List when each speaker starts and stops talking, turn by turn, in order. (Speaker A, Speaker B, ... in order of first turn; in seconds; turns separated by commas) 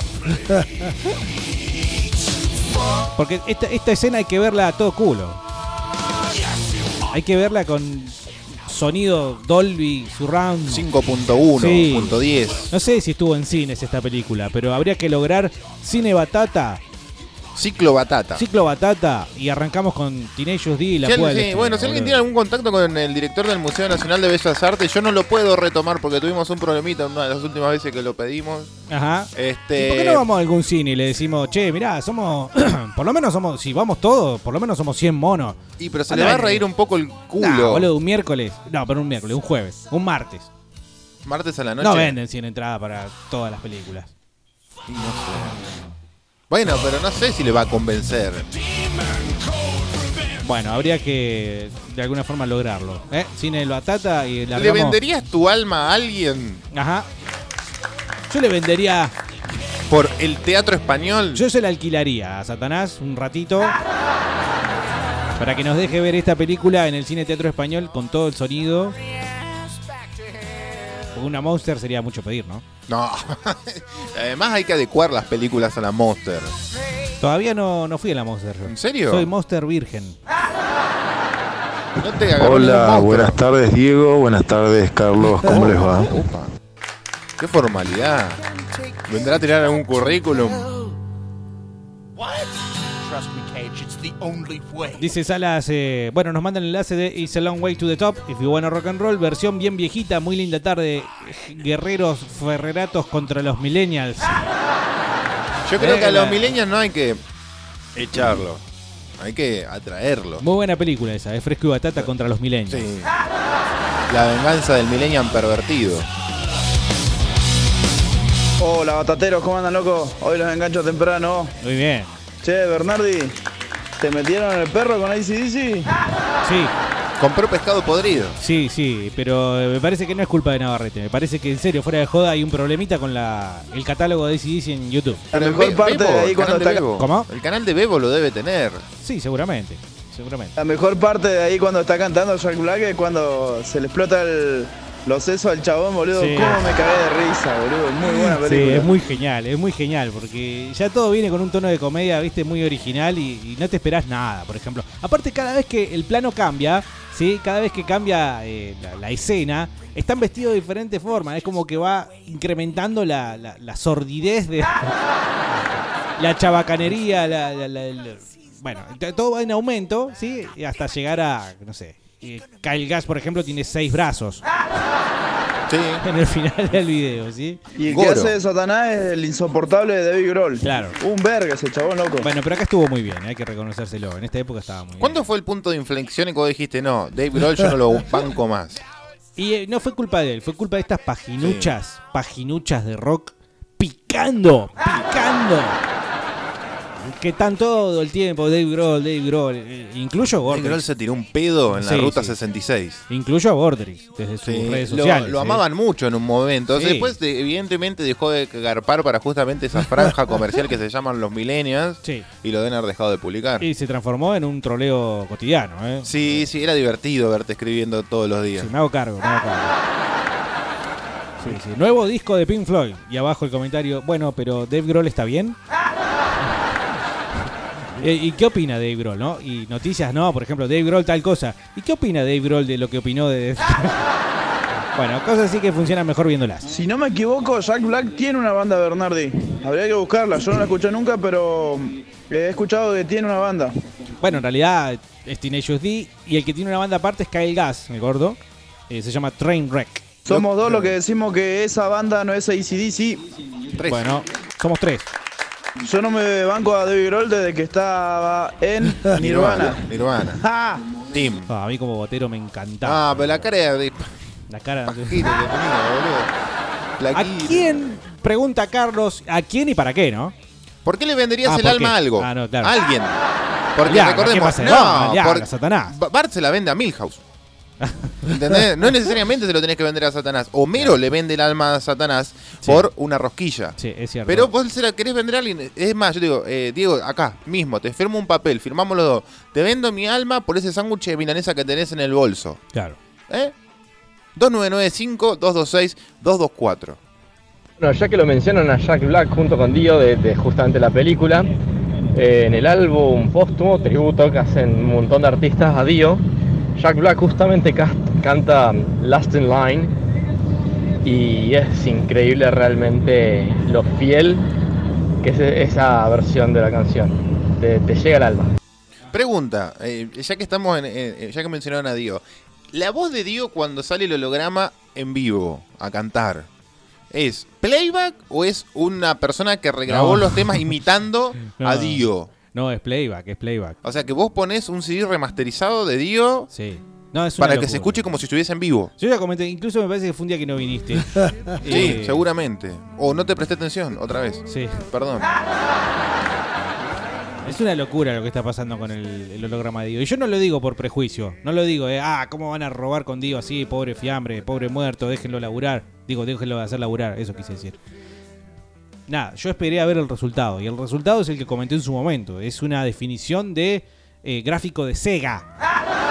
Speaker A: 3.1-5.4, Speaker A: 7.1-10.8, Speaker B: 10.7-12.7, Speaker A: 11.6-12.2, Speaker A: 12.7-16.8, Speaker B: 17.5-18.4, Speaker A: 18.4-22.2, Speaker B: 21.0-28.7, Speaker A: 28.9-36.6, Speaker B: 29.3-30.2, Speaker B: 35.8-37.9, Speaker A: 37.4-40.5, Speaker B: 41.2-42.1, Speaker A: 41.8-44.1, Speaker B: 44.9-45.6, Speaker B: 46.5-48.5, Speaker A: 50.4-55.0, Speaker B: 54.5-56.6, Speaker A: 56.7-57.1, Speaker A: 58.3-59.1, Speaker B: 59.9-61.4, Speaker A: 61.3-63.8, Speaker A: 65.4-69.0, Speaker A: 71.1-72.6, Speaker B: 72.9-76.5, Speaker A: 77.2-80.2, Speaker B: 78.6-79.3, Speaker B: 82.0-83.4, Speaker C: 82.4-86.1, Speaker B: 85.4-86.5, Speaker B: 87.4-88.4, Speaker D: 88.6-89.0, Speaker B: 89.1-90.7, Speaker D: 92.2-95.0, Speaker A: 95.0-104.4, Speaker B: 105.7-107.2, Speaker A: 105.8-106.5, Speaker B: 108.0-108.6, Speaker B: 109.2-110.4, Speaker A: 110.4-112.9, Speaker B: 112.7-113.1, Speaker B: 114.1-116.1, Speaker E: 118.6-121.5, Speaker A: 121.6-122.2, Speaker E: 122.4-123.4, Speaker E: 124.0-125.8, Speaker A: 126.4-126.7, Speaker B: 127.2-128.4, Speaker A: 128.4-135.2, Speaker E: 135.3-136.8, Speaker B: 135.3-138.8, Speaker A: 136.9-137.3, Speaker A: 139.0-140.5, Speaker E: 140.6-148.9, Speaker A: 146.1-146.7, Speaker A: 148.1-164.9, Speaker A: 166.2-174.4, Speaker B: 175.7-176.0, Speaker A: 176.0-177.6, Speaker E: 177.8-182.3, Speaker B: 177.9-178.3, Speaker A: 180.6-180.9, Speaker A: 182.2-185.2, Speaker B: 185.0-188.8, Speaker A: 189.4-195.8, Speaker B: 191.4-191.8, Speaker A: 197.1-200.8, Speaker B: 200.5-203.0, Speaker A: 201.8-202.3, Speaker A: 203.1-205.6, Speaker B: 204.4-213.7, Speaker A: 206.7-207.1, Speaker A: 213.6-216.4, Speaker B: 216.0-218.7, Speaker A: 218.6-219.7, Speaker A: 221.4-225.6, Speaker A: 228.0-234.1, Speaker A: 234.9-236.7, Speaker E: 236.7-243.7, Speaker A: 244.2-250.1, Speaker E: 250.2-253.2, Speaker B: 250.3-250.9, Speaker B: 253.8-254.1, Speaker A: 253.8-255.1, Speaker E: 255.8-259.8, Speaker B: 259.1-260.4, Speaker A: 260.4-260.8, Speaker B: 261.1-261.5, Speaker A: 261.5-263.4, Speaker B: 262.8-264.1, Speaker A: 264.5-265.3, Speaker B: 264.9-266.3, Speaker B: 267.0-267.7, Speaker A: 267.1-270.3, Speaker B: 270.8-273.2, Speaker A: 271.4-272.7, Speaker B: 273.8-277.2, Speaker A: 273.9-275.9, Speaker A: 277.8-278.6, Speaker B: 278.3-292.6, Speaker A: 282.6-282.9, Speaker A: 283.8-284.5, Speaker B: 294.4-297.0, Speaker F: 297.8-301.5, Speaker F: 302.1-306.2, Speaker F: 306.8-309.9, Speaker F: 311.0-314.4, Speaker F: 315.2-318.5, Speaker B: 319.1-326.5, Speaker B: 327.1-332.3, Speaker A: 329.9-330.5, Speaker A: 331.5-333.8, Speaker B: 333.8-336.5, Speaker A: 336.5-338.1, Speaker B: 337.4-338.9, Speaker A: 339.0-342.2, Speaker B: 341.6-345.3, Speaker A: 344.5-344.8, Speaker A: 347.4-357.8, Speaker A: 359.1-365.5